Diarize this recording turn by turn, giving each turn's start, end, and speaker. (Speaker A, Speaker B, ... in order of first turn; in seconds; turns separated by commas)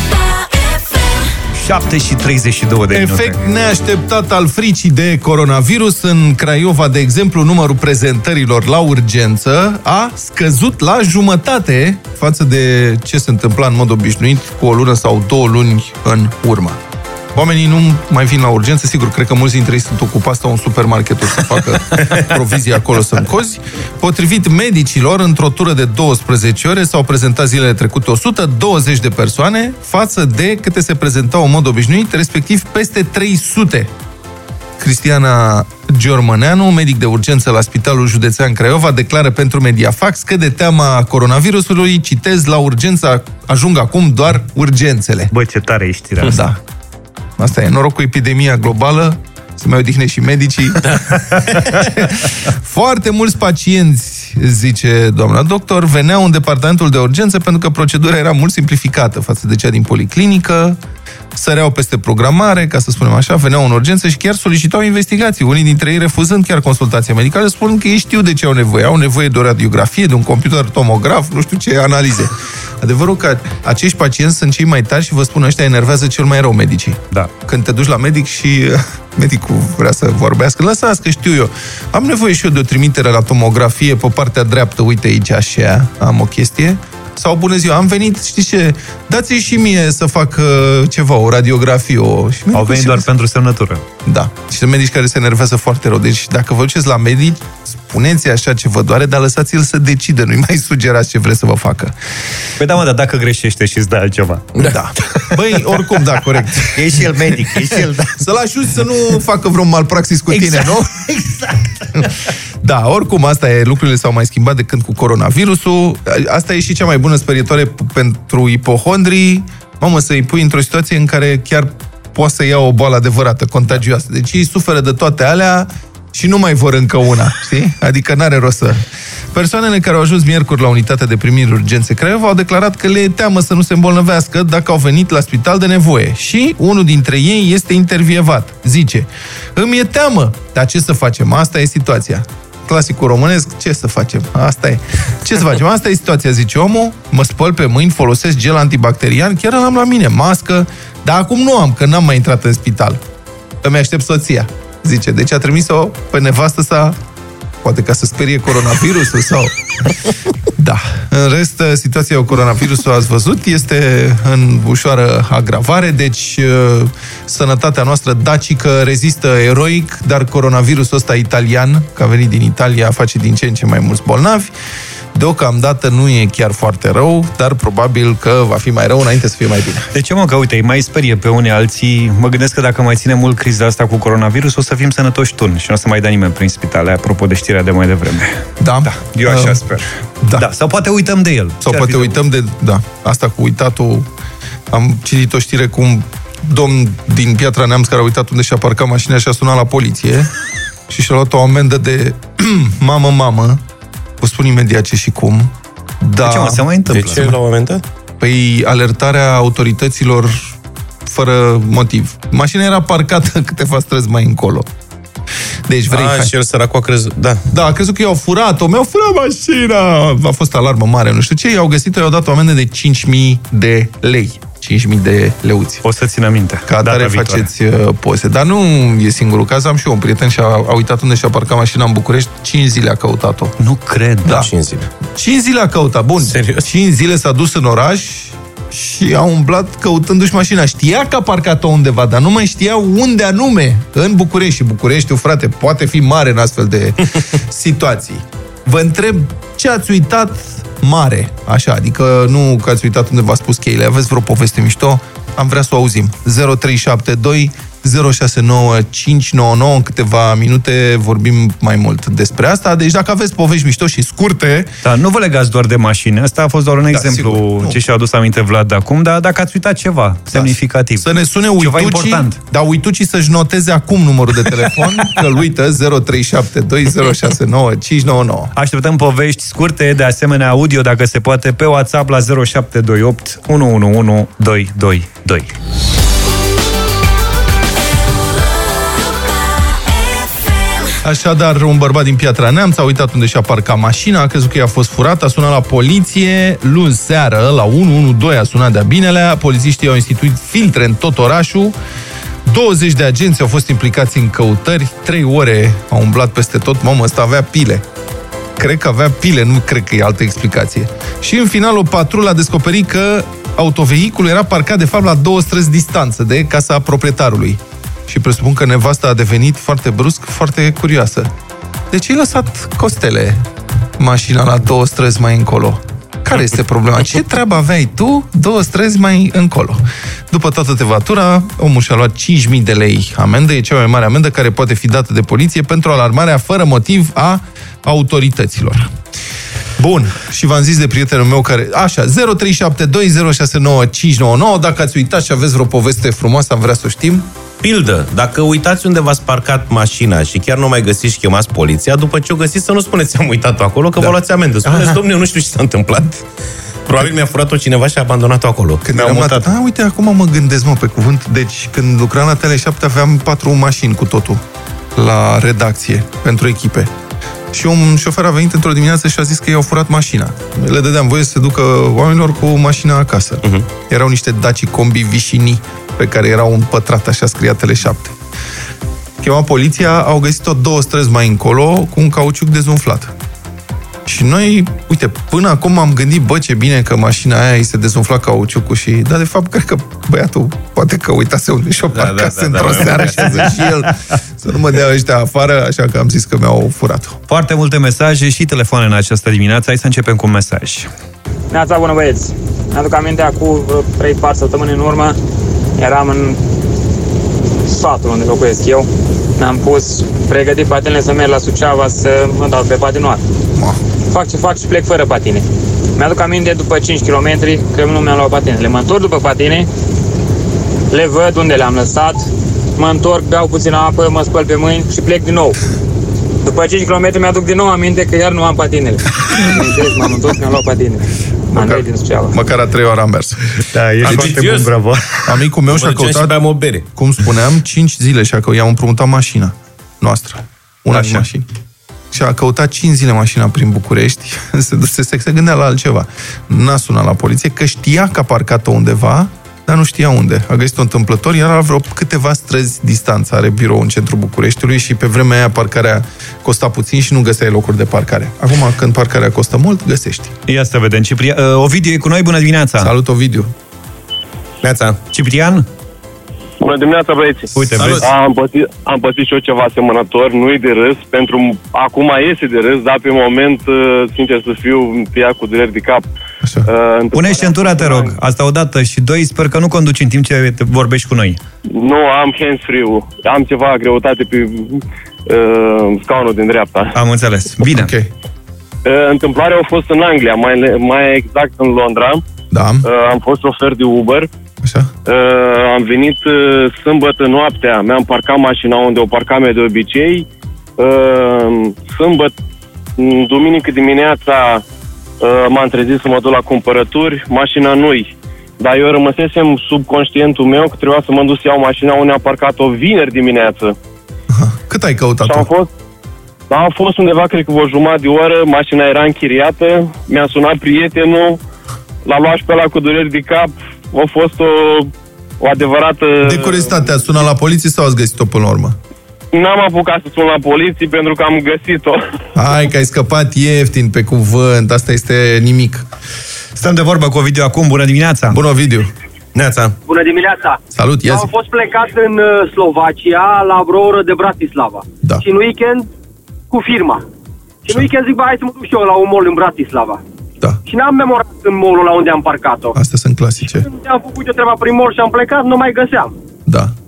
Speaker A: 1.6-3.4, Speaker B: 2.9-16.8, Speaker B: 17.4-33.9, Speaker B: 34.8-45.3, Speaker A: 45.3-46.5, Speaker B: 46.2-46.6, Speaker B: 47.4-50.8, Speaker C: 50.8-51.9, Speaker B: 51.8-60.8, Speaker B: 61.4-93.1, Speaker A: 92.5-93.8, Speaker B: 94.1-102.0, Speaker A: 102.6-104.6, Speaker B: 104.6-106.9, Speaker A: 106.7-108.1, Speaker B: 108.2-111.1, Speaker A: 110.3-111.7, Speaker B: 111.9-153.0, Speaker B: 153.6-157.0, Speaker B: 157.6-159.9, Speaker B: 160.6-174.5, Speaker B: 175.1-179.9, Speaker A: 179.9-192.2, Speaker B: 188.6-189.6, Speaker B: 190.2-190.5, Speaker B: 191.6-194.1, Speaker B: 194.7-200.3, Speaker B: 200.9-203.6, Speaker B: 204.2-206.7, Speaker A: 206.2-207.3, Speaker C: 206.9-207.8, Speaker B: 208.2-214.7, Speaker B: 215.7-216.3, Speaker C: 215.9-217.4, Speaker B: 217.5-225.8, Speaker A: 225.8-227.5, Speaker B: 226.7-233.5, Speaker A: 233.6-234.4, Speaker B: 234.2-234.5, Speaker C: 234.3-234.9, Speaker B: 235.2-264.7, Speaker C: 236.2-236.7, Speaker A: 264.8-272.4, Speaker B: 266.9-267.8, Speaker B: 270.3-278.5, Speaker A: 278.6-285.6, Speaker B: 291.0-301.8, Speaker B: 302.4-307.9, Speaker B: 308.6-321.3, Speaker B: 321.9-323.4, Speaker B: 324.0-338.9, Speaker B: 339.8-347.3, Speaker C: 347.6-356.2, Speaker C: 356.9-359.4, Speaker B: 358.9-364.4, Speaker B: 365.0-366.9, Speaker B: 367.5-378.2, Speaker B: 379.2-383.1, Speaker B: 384.1-397.2, Speaker C: 391.9-393.5, Speaker A: 397.3-400.9, Speaker D: 401.5-405.2, Speaker D: 405.8-406.4, Speaker D: 407.7-413.2, Speaker D: 414.1-415.4, Speaker D: 416.0-419.7, Speaker D: 420.9-425.6, Speaker D: 426.4-432.3, Speaker B: 431.5-433.4, Speaker A: 433.7-435.3, Speaker B: 434.0-434.5, Speaker C: 434.0-434.7, Speaker B: 435.3-436.4, Speaker C: 435.7-436.9, Speaker B: 436.9-441.5, Speaker A: 440.9-441.2, Speaker B: 442.1-460.4, Speaker A: 460.5-462.9, Speaker B: 462.8-463.5, Speaker C: 464.6-465.0, Speaker A: 465.1-465.7, Speaker E: 466.6-467.5, Speaker A: 467.5-468.1, Speaker C: 467.8-468.1, Speaker E: 468.0-476.1, Speaker E: 476.7-478.1, Speaker A: 477.1-481.4, Speaker E: 481.7-486.9, Speaker A: 486.9-487.9, Speaker B: 487.7-488.1, Speaker E: 488.9-492.2, Speaker B: 492.5-492.9, Speaker E: 492.8-494.3, Speaker B: 494.6-494.9, Speaker E: 495.1-500.3, Speaker E: 500.8-502.3, Speaker E: 503.0-504.6, Speaker E: 505.2-513.8, Speaker B: 514.3-515.5, Speaker E: 515.2-515.7, Speaker E: 516.5-521.4, Speaker E: 522.1-526.7, Speaker B: 526.2-528.8, Speaker E: 529.3-532.0, Speaker B: 532.4-535.9, Speaker A: 536.6-538.4, Speaker B: 538.3-538.9, Speaker C: 539.4-539.8, Speaker F: 539.9-545.9, Speaker B: 540.7-541.3, Speaker F: 546.5-547.0, Speaker F: 547.7-550.0, Speaker F: 550.7-552.8, Speaker B: 552.7-553.7, Speaker F: 553.6-556.1, Speaker B: 556.5-556.7